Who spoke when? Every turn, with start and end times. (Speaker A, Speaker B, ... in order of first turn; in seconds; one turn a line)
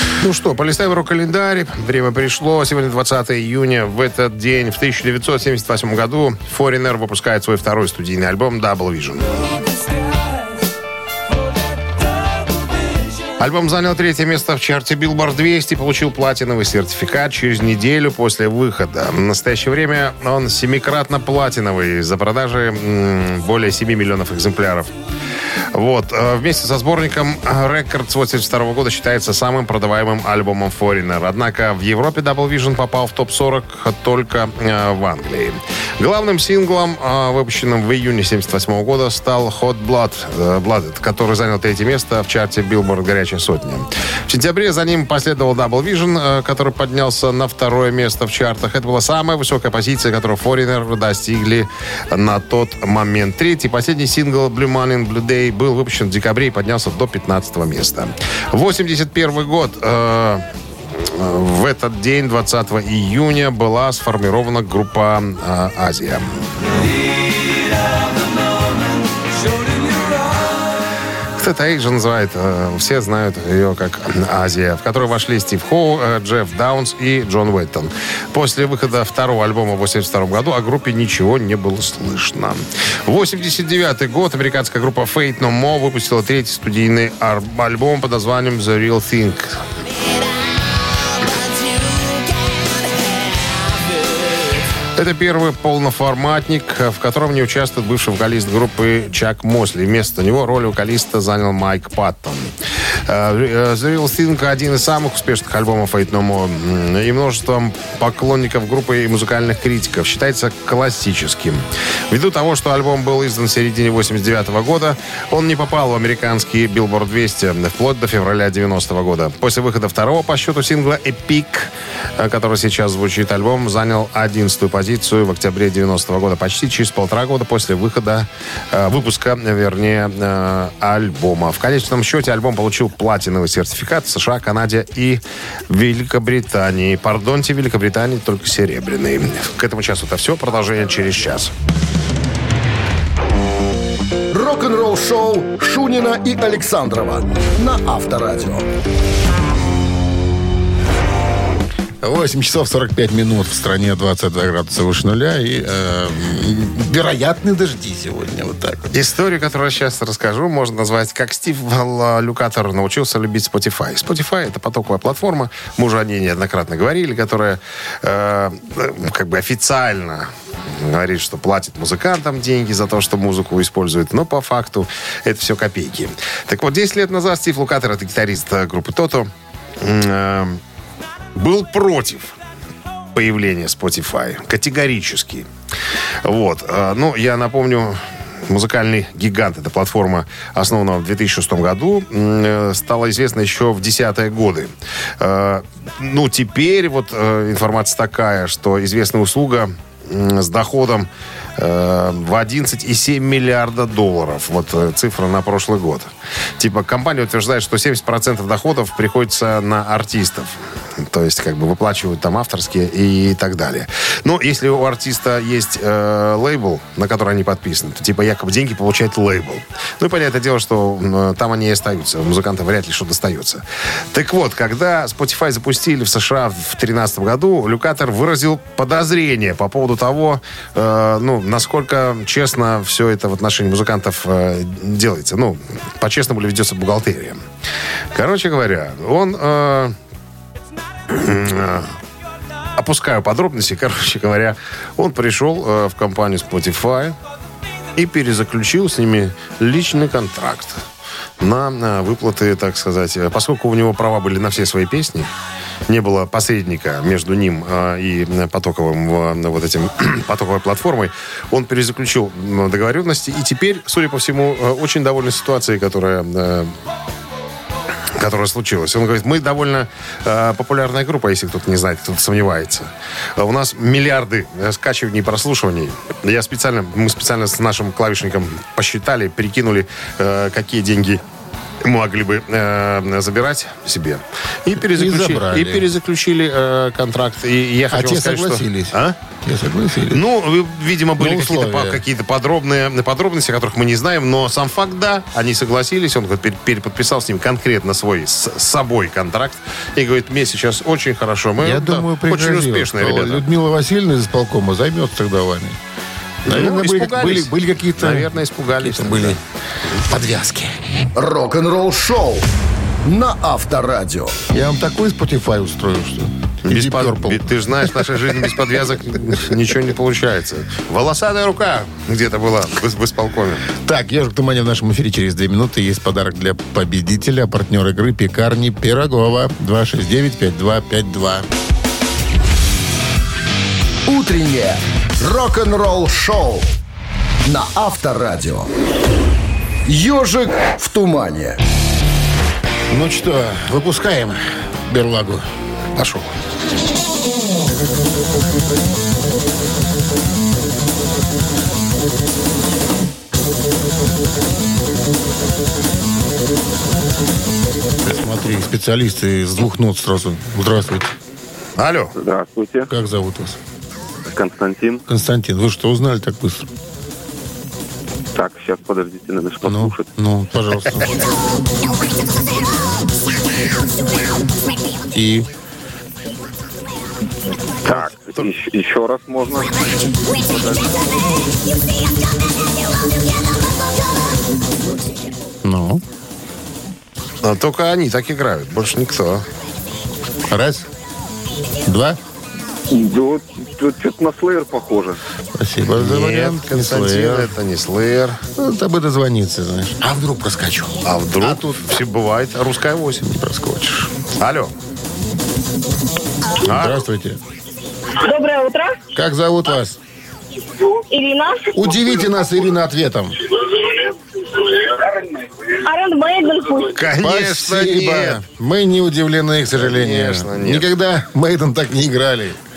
Speaker A: 0.2-9.4
Speaker A: 13.4-24.9
Speaker A: 25.7-66.5
Speaker A: 71.4-89.6
Speaker A: 95.0-102.5
Speaker A: 103.1-141.5
Speaker B: 144.3-148.7
Speaker C: 152.0-158.8
Speaker A: 158.9-180.6
Speaker A: 181.3-182.3
Speaker A: 183.1-185.5
Speaker A: 186.2-237.4
Speaker A: 238.1-239.9
Speaker A: 241.1-241.9
Speaker A: 242.8-247.2
Speaker A: 247.9-250.8
Speaker A: 251.4-255.3
Speaker A: 255.9-266.8
Speaker A: 268.2-281.2
Speaker A: 281.8-289.2
Speaker C: 284.8-285.9
Speaker C: 287.9-290.2
Speaker A: 290.1-303.4
Speaker C: 291.2-292.0
Speaker C: 301.6-305.8
Speaker C: 306.4-309.4
Speaker A: 306.5-309.4
Speaker C: 310.1-310.8
Speaker B: 311.1-312.5
Speaker B: 313.0-314.4
Speaker C: 314.5-318.3
Speaker A: 316.7-323.7
Speaker C: 323.8-331.5
Speaker B: 334.1-336.7
Speaker B: 337.4-338.7
Speaker B: 339.9-341.6
Speaker C: 342.9-345.5
Speaker A: 346.0-346.3
Speaker C: 358.0-361.1
Speaker A: 361.8-362.1
Speaker D: 362.1-362.9
Speaker C: 362.9-363.6
Speaker D: 364.2-365.0
Speaker C: 365.1-366.7
Speaker D: 368.4-370.1
Speaker C: 369.6-371.3
Speaker C: 375.1-375.5
Speaker D: 377.8-381.3
Speaker A: 377.9-378.5
Speaker C: 385.6-386.0
Speaker A: 387.4-389.4
Speaker C: 390.5-390.9
Speaker C: 391.9-392.2
Speaker D: 392.9-395.2
Speaker C: 395.6-397.5
Speaker A: 396.0-398.4
Speaker C: 398.6-402.0
Speaker A: 401.0-403.2
Speaker C: 403.2-404.1
Speaker A: 404.4-404.7
Speaker A: 406.6-407.0
Speaker C: 406.6-407.4
Speaker E: 408.2-409.0
Speaker C: 409.1-410.0
Speaker E: 410.9-411.8
Speaker C: 411.7-413.4
Speaker E: 414.7-415.2
Speaker E: 415.7-417.0
Speaker A: 416.9-418.4
Speaker C: 417.2-422.6
Speaker A: 419.8-420.9